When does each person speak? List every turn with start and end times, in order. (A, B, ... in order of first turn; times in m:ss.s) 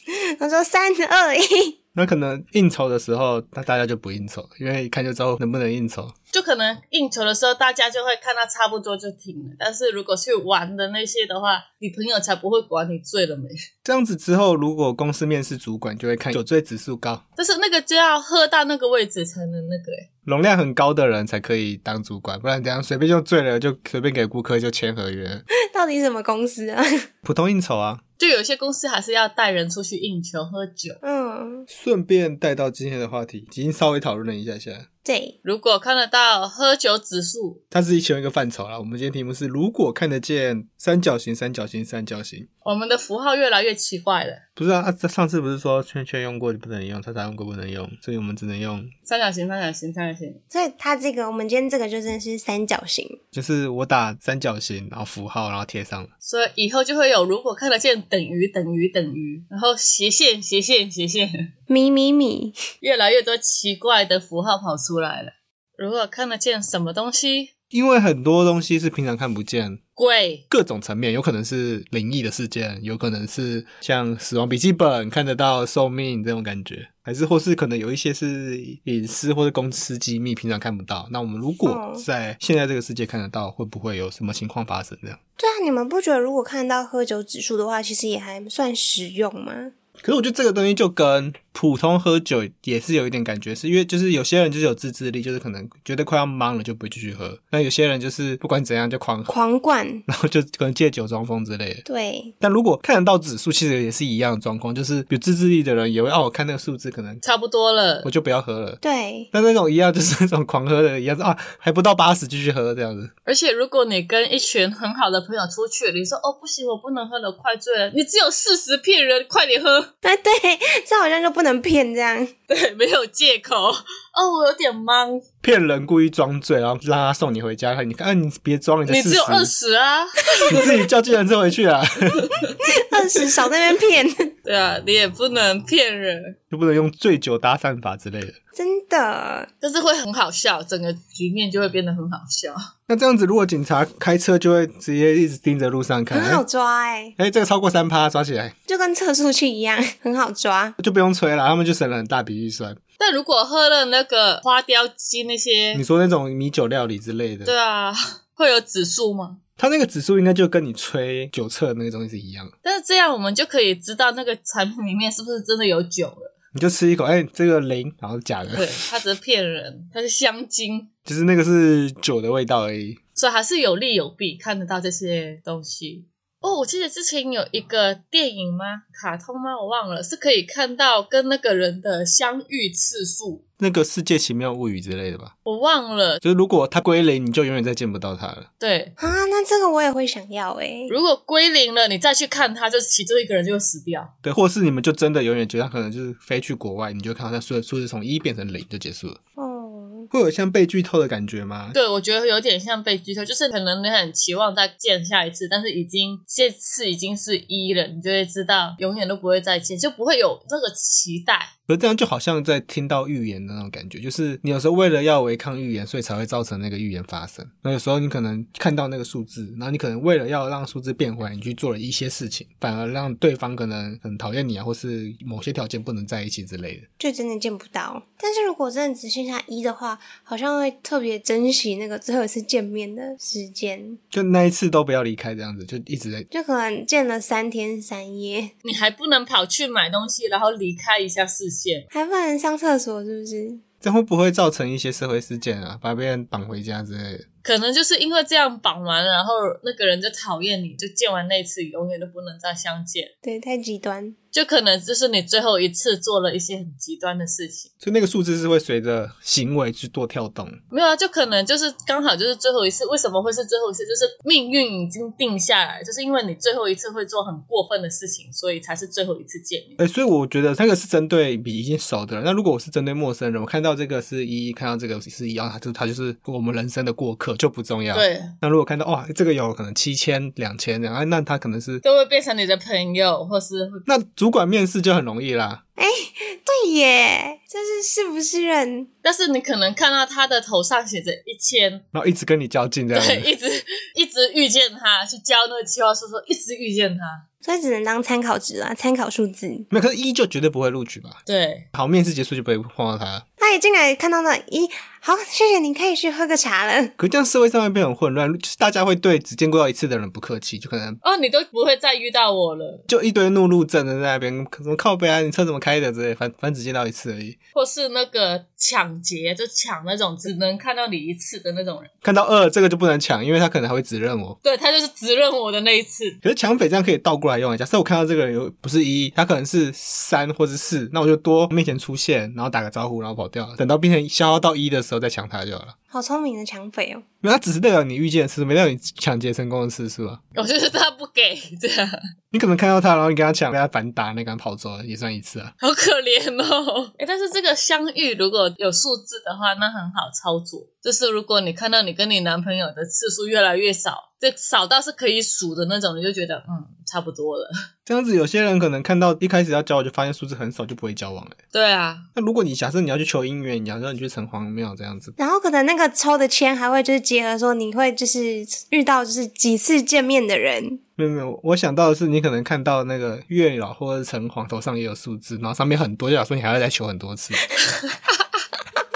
0:00.1-0:01.8 A
0:01.9-0:06.1 B
0:06.3-0:13.5 C
0:13.8-0:17.2 B
0:17.4-0:20.1 C
0:20.2-0:25.4 B
0:25.7-0:27.0 A
0:27.2-0:28.0 B
0:28.2-0:31.0 C
0:31.0-0:31.7 A
0:31.7-0:34.8 B
0:35.0-0:35.3 A
0:35.4-0:37.6 C
0:37.7-0:42.5 B
0:42.6-0:44.4 C
0:44.6-0:48.9 B
0:49.1-0:50.4 C
0:50.5-0:53.2 A
0:53.3-0:56.1 B
0:56.2-1:01.4 C
1:01.7-1:02.6 A
1:02.8-1:07.5 C
1:07.7-1:09.8 B
1:10.0-1:10.4 C
1:10.5-1:25.2 B
1:21.6-1:22.0 A
1:25.4-1:29.7 A
1:30.0-1:39.3 B
1:39.3-1:40.0 A
1:40.1-1:41.8 B
1:41.8-1:42.3 A
1:42.4-1:47.2 B
1:47.2-1:48.1 C
1:48.0-1:48.8 B
1:48.8-1:49.3 A
1:49.3-1:53.1 B
1:53.2-1:59.9 C
2:00.0-2:02.3 A
2:02.5-2:05.2 C
2:05.4-2:09.5 B
2:08.9-2:10.7 C
2:10.5-2:12.4 B
2:12.6-2:14.3 A
2:14.4-2:16.4 C
2:16.5-2:18.4 B
2:18.5-2:19.5 A
2:19.6-2:22.6 C
2:22.9-2:26.4 B
2:26.1-2:27.1 A
2:27.2-2:28.5 B
2:28.7-2:30.8 A
2:30.8-2:32.8 B
2:33.0-2:35.8 C
2:35.7-2:37.5 B
2:37.4-2:39.4 C
2:39.6-2:42.5 B
2:42.6-2:46.3 C
2:46.5-2:48.8 B
2:48.6-2:50.9 C
2:51.0-2:53.0 B
2:53.2-3:03.4 C
3:03.6-3:05.3 B
3:05.4-3:06.2 C
3:06.2-3:08.5 B
3:08.6-3:08.9 C
3:09.0-3:10.9 A
3:10.9-3:14.1 C
3:14.2-3:19.2 B
3:19.4-3:20.1 A
3:20.1-3:21.8 B
3:21.7-3:31.5 C
3:31.7-3:46.8 B
3:47.0-3:54.0 A
3:54.1-3:56.3 B
3:56.3-3:58.5 A
3:58.6-4:01.8 C
4:01.9-4:03.6 A
4:03.8-4:07.2 B
4:07.4-4:13.1 C
4:13.2-4:14.2 A
4:14.3-4:17.7 C
4:17.8-4:20.6 B
4:20.7-4:29.8 C
4:29.8-4:41.8 B
4:37.9-4:38.3 C
4:41.8-4:43.8 C
4:43.9-4:45.6 B
4:45.8-4:48.9 A
4:49.0-4:51.8 C
4:51.9-4:53.3 B
4:52.9-4:57.2 C
4:57.4-4:59.7 A
4:59.7-5:01.2 B
5:01.2-5:01.6 C
5:01.7-5:03.2 B
5:03.4-5:06.9 A
5:07.0-5:11.0 B
5:11.0-5:12.8 C
5:12.9-5:17.4 B
5:17.5-5:21.9 C
5:22.0-5:24.4 B
5:24.4-5:26.2 C
5:26.2-5:35.7 B
5:35.9-5:37.0 A
5:37.2-5:40.2 B
5:40.3-5:41.9 C
5:42.3-5:45.5 B
5:45.6-5:57.5 C
5:57.8-6:01.4 B
6:01.5-6:02.0 C
6:02.2-6:05.1 B
6:05.2-6:10.8 A
6:11.0-6:17.5 B
6:17.7-6:18.2 C